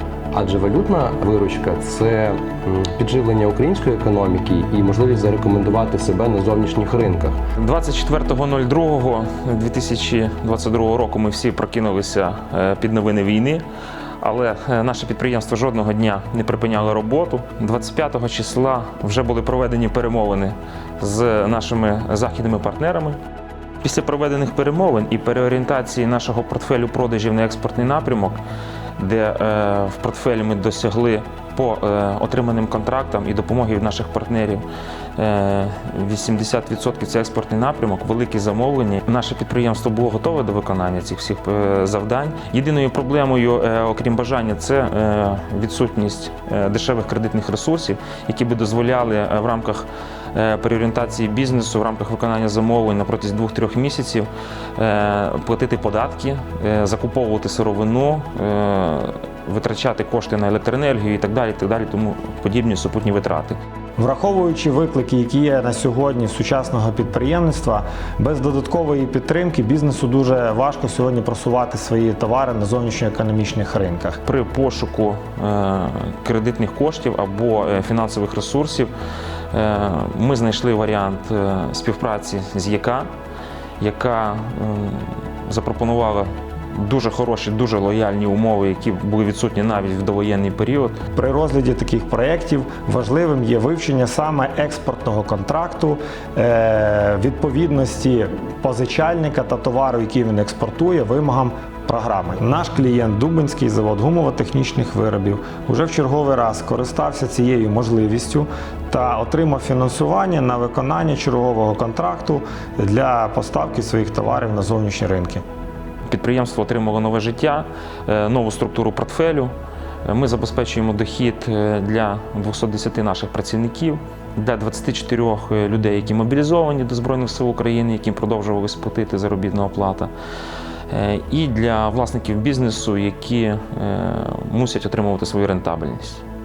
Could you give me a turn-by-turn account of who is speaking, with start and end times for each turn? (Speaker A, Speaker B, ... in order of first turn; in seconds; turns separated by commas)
Speaker A: 0.3-7.4, Speaker B: 7.6-13.6, Speaker B: 14.2-23.2, Speaker B: 23.8-28.4, Speaker B: 29.0-34.6, Speaker B: 35.2-63.6, Speaker C: 64.0-74.2, Speaker B: 74.3-78.9, Speaker B: 79.5-83.1, Speaker B: 83.8-91.0, Speaker C: 91.1-115.4, Speaker B: 116.1-119.5, Speaker B: 120.0-130.1, Speaker B: 130.9-136.2